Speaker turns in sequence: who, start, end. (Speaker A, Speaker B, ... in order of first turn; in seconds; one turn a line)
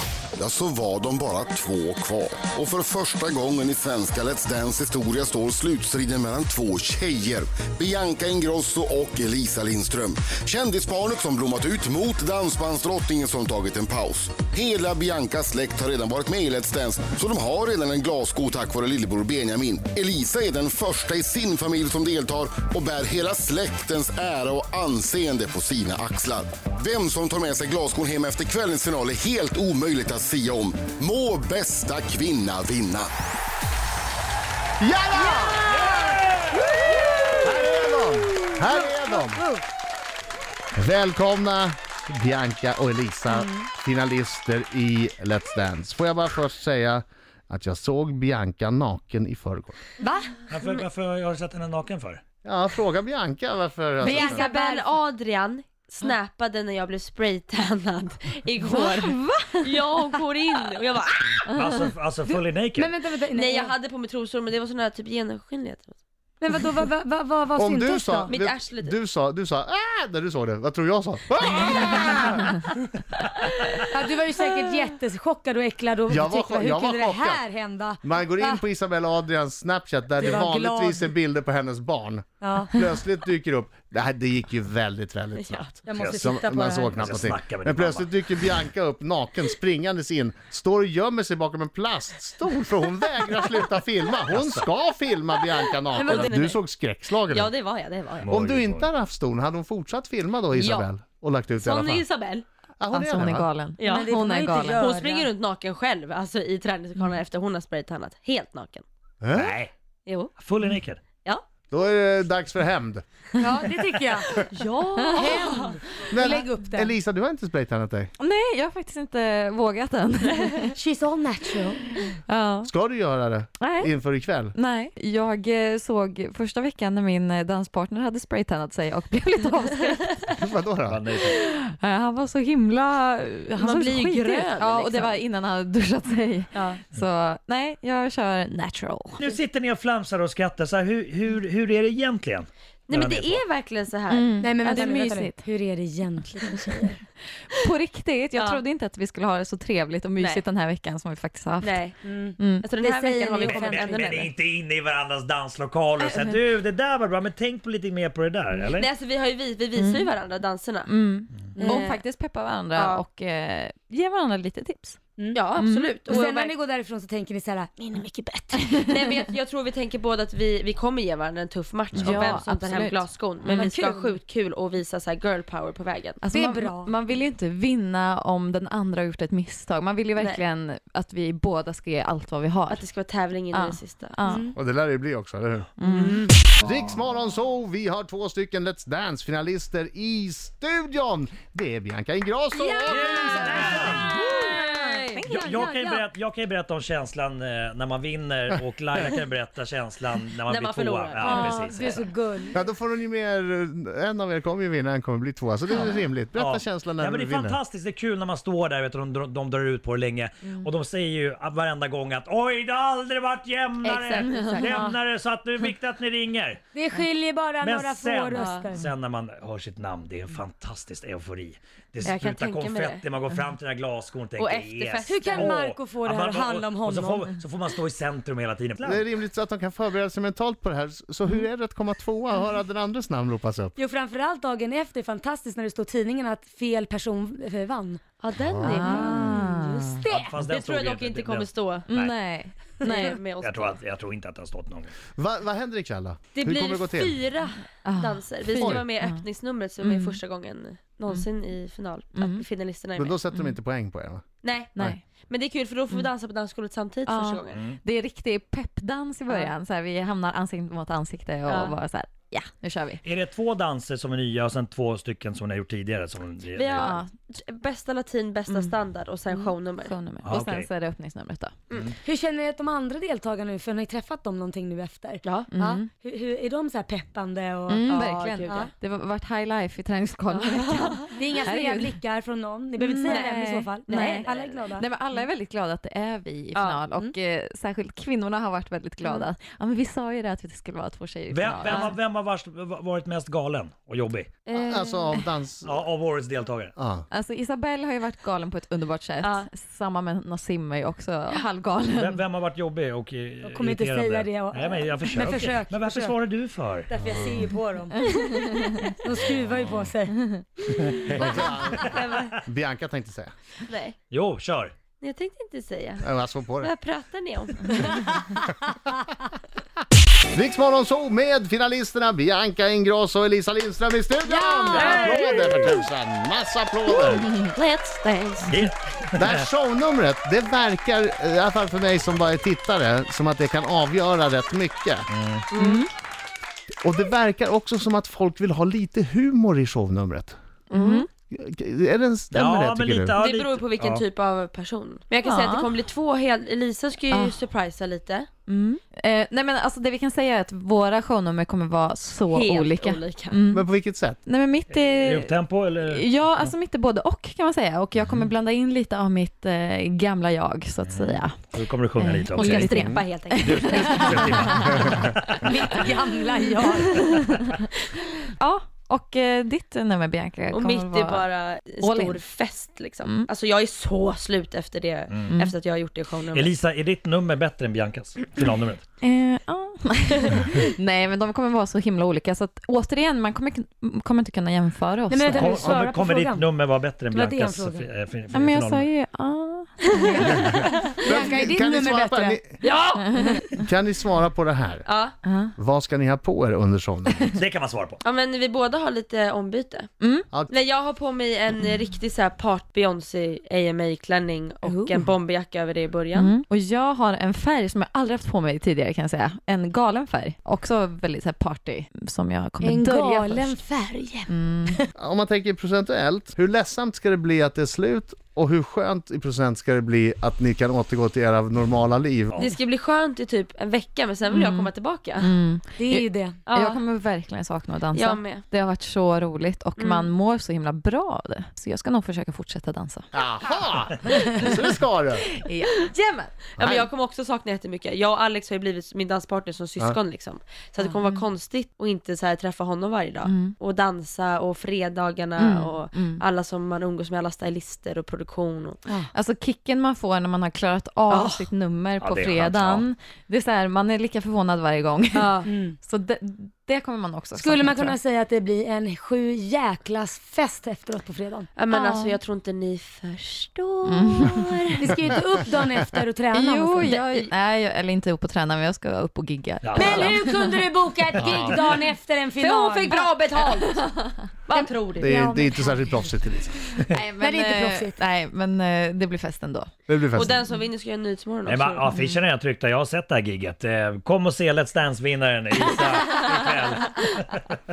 Speaker A: 0.4-33.1
Speaker B: 34.8-36.1
Speaker C: 35.2-36.0
Speaker C: 36.8-37.2
Speaker B: 37.4-39.5
Speaker C: 38.7-39.6
Speaker B: 40.8-49.8
Speaker C: 43.3-43.7
Speaker C: 50.0-50.3
Speaker D: 50.5-52.2
Speaker B: 52.4-54.5
Speaker E: 54.0-54.4
Speaker C: 54.1-54.9
Speaker F: 54.3-61.5
Speaker E: 58.6-60.7
Speaker E: 61.5-61.9
Speaker D: 61.5-62.9
Speaker C: 62.3-63.7
Speaker F: 63.3-66.0
Speaker C: 66.4-68.3
Speaker B: 67.6-72.7
Speaker F: 68.3-69.0
Speaker C: 73.9-78.6
Speaker B: 76.1-77.5
Speaker B: 78.0-97.5
Speaker C: 80.2-81.1
Speaker C: 82.4-82.8
Speaker F: 85.4-85.7
Speaker C: 85.9-87.0
Speaker D: 86.0-86.3
Speaker D: 86.9-88.5
Speaker D: 94.3-94.7
Speaker F: 95.6-96.6
Speaker F: 97.3-98.4
Speaker D: 98.2-98.9
Speaker B: 98.3-102.1
Speaker F: 100.5-100.9
Speaker F: 101.6-102.5
Speaker B: 102.8-103.5
Speaker E: 102.9-104.8
Speaker F: 103.8-108.8
Speaker C: 103.8-105.3
Speaker B: 109.2-109.5
Speaker D: 109.3-109.7
Speaker F: 110.1-110.3
Speaker D: 110.4-111.1
Speaker F: 111.2-111.4
Speaker B: 111.7-113.0
Speaker C: 113.4-116.9
Speaker F: 114.4-115.8
Speaker E: 115.0-115.4
Speaker B: 116.1-118.1
Speaker E: 118.2-120.8
Speaker C: 120.7-121.8
Speaker E: 122.0-122.7
Speaker B: 122.6-124.5
Speaker E: 123.6-123.9
Speaker E: 124.5-130.3
Speaker B: 130.4-131.0
Speaker D: 130.9-131.4
Speaker E: 131.2-139.2
Speaker F: 133.6-135.2
Speaker F: 136.5-136.8
Speaker D: 139.2-143.5
Speaker F: 142.9-144.5
Speaker E: 144.1-145.4
Speaker C: 144.4-147.0
Speaker E: 147.5-151.9
Speaker F: 148.4-148.6
Speaker F: 150.2-150.4
Speaker F: 151.6-152.0
Speaker C: 152.1-154.3
Speaker E: 152.4-152.7
Speaker F: 152.6-154.3
Speaker D: 153.4-158.9
Speaker E: 156.0-156.4
Speaker F: 158.6-161.0
Speaker E: 159.8-160.1
Speaker E: 160.9-165.0
Speaker C: 161.5-161.9
Speaker F: 161.6-162.0
Speaker F: 162.8-163.0
Speaker C: 165.2-168.8
Speaker F: 165.3-166.6
Speaker E: 165.6-166.0
Speaker E: 168.6-168.9
Speaker F: 168.9-176.2
Speaker E: 172.0-173.8
Speaker C: 173.6-174.2
Speaker E: 176.2-182.9
Speaker C: 176.3-176.9
Speaker F: 180.2-180.4
Speaker F: 182.7-184.2
Speaker E: 183.5-184.5
Speaker C: 184.2-184.6
Speaker B: 184.6-185.7
Speaker E: 185.8-186.2
Speaker F: 185.8-186.2
Speaker B: 186.6-194.1
Speaker F: 192.5-193.6
Speaker D: 192.9-194.1
Speaker C: 193.8-196.1
Speaker F: 194.1-195.2
Speaker E: 195.1-195.6
Speaker D: 195.2-202.1
Speaker F: 200.5-201.7
Speaker C: 201.2-202.6
Speaker E: 201.4-201.7
Speaker B: 202.5-207.6
Speaker D: 205.8-216.6
Speaker E: 210.4-210.7
Speaker F: 213.8-214.8
Speaker E: 214.0-214.9
Speaker C: 214.6-214.9
Speaker C: 216.7-218.8
Speaker D: 217.6-229.1
Speaker E: 218.4-218.7
Speaker F: 222.0-223.0
Speaker F: 224.4-225.4
Speaker C: 225.1-227.3
Speaker B: 228.8-233.8
Speaker C: 233.8-238.1
Speaker F: 238.2-239.3
Speaker B: 238.5-238.9
Speaker E: 238.7-240.0
Speaker C: 238.9-240.4
Speaker D: 240.1-242.2
Speaker F: 240.1-241.9
Speaker E: 241.9-243.2
Speaker F: 242.8-243.8
Speaker D: 243.4-244.9
Speaker B: 245.2-247.2
Speaker F: 246.3-253.2
Speaker E: 247.8-249.2
Speaker E: 249.8-250.2
Speaker E: 252.2-252.4
Speaker B: 253.0-254.2
Speaker F: 254.4-257.6
Speaker E: 254.8-255.0
Speaker E: 257.1-263.0
Speaker D: 257.5-257.8
Speaker F: 261.5-261.8
Speaker D: 263.0-267.0
Speaker F: 266.6-269.9
Speaker E: 266.8-267.1
Speaker E: 268.5-268.7
Speaker E: 269.3-271.7
Speaker D: 270.2-270.7
Speaker F: 271.7-271.9
Speaker C: 272.0-278.7
Speaker F: 275.2-275.5
Speaker E: 275.4-275.9
Speaker E: 277.7-282.0
Speaker F: 277.9-278.7
Speaker F: 280.3-281.1
Speaker C: 281.1-284.9
Speaker E: 282.8-292.0
Speaker F: 283.1-283.4
Speaker F: 284.0-285.3
Speaker F: 286.6-286.8
Speaker C: 286.7-287.1
Speaker F: 289.0-289.3
Speaker D: 291.3-294.3
Speaker F: 291.6-291.9
Speaker F: 294.5-295.2
Speaker B: 294.6-295.8
Speaker D: 295.6-296.7
Speaker B: 296.8-297.1
Speaker E: 297.1-302.2
Speaker F: 299.2-299.5
Speaker D: 301.9-306.9
Speaker C: 303.4-306.2
Speaker C: 306.9-308.5
Speaker B: 307.0-307.5
Speaker E: 307.9-308.9
Speaker F: 308.5-308.9
Speaker C: 309.0-310.8
Speaker D: 310.7-312.0
Speaker B: 311.1-313.3
Speaker F: 311.8-312.4
Speaker F: 313.6-314.0
Speaker D: 314.1-314.7
Speaker F: 315.0-318.0
Speaker B: 316.0-316.7
Speaker B: 320.3-327.3
Speaker C: 324.3-325.3
Speaker D: 324.8-325.8
Speaker F: 326.9-328.6
Speaker D: 326.9-327.2
Speaker E: 327.2-327.5
Speaker D: 328.5-329.5
Speaker B: 329.2-335.1
Speaker D: 335.1-335.5
Speaker F: 335.5-335.9
Speaker E: 335.6-335.9
Speaker B: 336.8-340.4
Speaker E: 340.7-341.1
Speaker F: 340.7-341.1
Speaker B: 341.3-343.2
Speaker D: 342.3-344.1
Speaker F: 343.2-348.3
Speaker E: 345.2-345.7
Speaker E: 347.1-347.4
Speaker E: 348.5-353.7
Speaker F: 352.3-353.4
Speaker B: 353.5-354.2
Speaker E: 354.2-355.3
Speaker D: 354.7-356.5
Speaker E: 355.9-364.9
Speaker D: 358.0-358.3
Speaker D: 360.8-362.7
Speaker F: 362.4-364.0
Speaker B: 362.8-363.0
Speaker D: 363.4-365.7
Speaker C: 365.4-367.2
Speaker E: 366.6-367.6
Speaker F: 366.9-367.2
Speaker E: 368.4-371.3
Speaker F: 370.5-376.5
Speaker E: 371.8-372.2
Speaker E: 373.0-373.3
Speaker D: 375.1-375.4
Speaker D: 376.3-378.8
Speaker E: 379.0-385.6
Speaker F: 380.3-380.6
Speaker C: 385.1-386.5
Speaker D: 385.4-388.9
Speaker C: 387.1-387.9
Speaker E: 388.3-390.5
Speaker F: 389.9-391.0
Speaker B: 390.2-392.6
Speaker C: 390.9-392.4
Speaker F: 392.6-393.4
Speaker E: 392.9-393.7
Speaker C: 393.2-393.4
Speaker B: 393.6-394.9
Speaker F: 394.9-395.2
Speaker E: 395.2-395.6
Speaker B: 395.6-397.3
Speaker D: 397.3-398.0
Speaker F: 398.0-399.9
Speaker E: 400.0-400.3
Speaker F: 400.5-406.3
Speaker C: 404.6-405.1
Speaker E: 406.1-413.6
Speaker C: 412.6-414.9
Speaker E: 414.3-414.8
Speaker B: 415.0-422.4
Speaker D: 422.3-422.6
Speaker F: 422.4-425.3
Speaker E: 424.3-433.1
Speaker C: 425.8-426.4
Speaker F: 426.5-426.8
Speaker F: 427.9-428.4
Speaker F: 429.8-430.1
Speaker B: 433.1-435.3
Speaker E: 435.3-436.3
Speaker F: 436.6-448.8
Speaker B: 436.6-436.9
Speaker E: 443.2-443.6
Speaker E: 445.4-446.2
Speaker E: 449.1-458.0
Speaker F: 451.1-451.5
Speaker D: 452.0-452.9
Speaker F: 455.1-455.5
Speaker C: 455.4-455.8
Speaker C: 457.3-461.5
Speaker F: 461.6-465.0
Speaker E: 461.7-462.2
Speaker E: 463.9-464.6
Speaker C: 464.8-467.3
Speaker E: 466.3-470.6
Speaker F: 466.8-467.3
Speaker D: 469.6-470.2
Speaker C: 469.8-473.3
Speaker D: 471.1-471.8
Speaker F: 472.4-473.9
Speaker E: 473.6-474.3
Speaker F: 474.5-475.1
Speaker C: 474.6-476.1
Speaker B: 475.0-476.6
Speaker E: 476.8-479.7
Speaker C: 477.2-478.0
Speaker B: 479.9-480.4
Speaker F: 480.1-482.0
Speaker D: 481.5-487.4
Speaker E: 481.9-482.2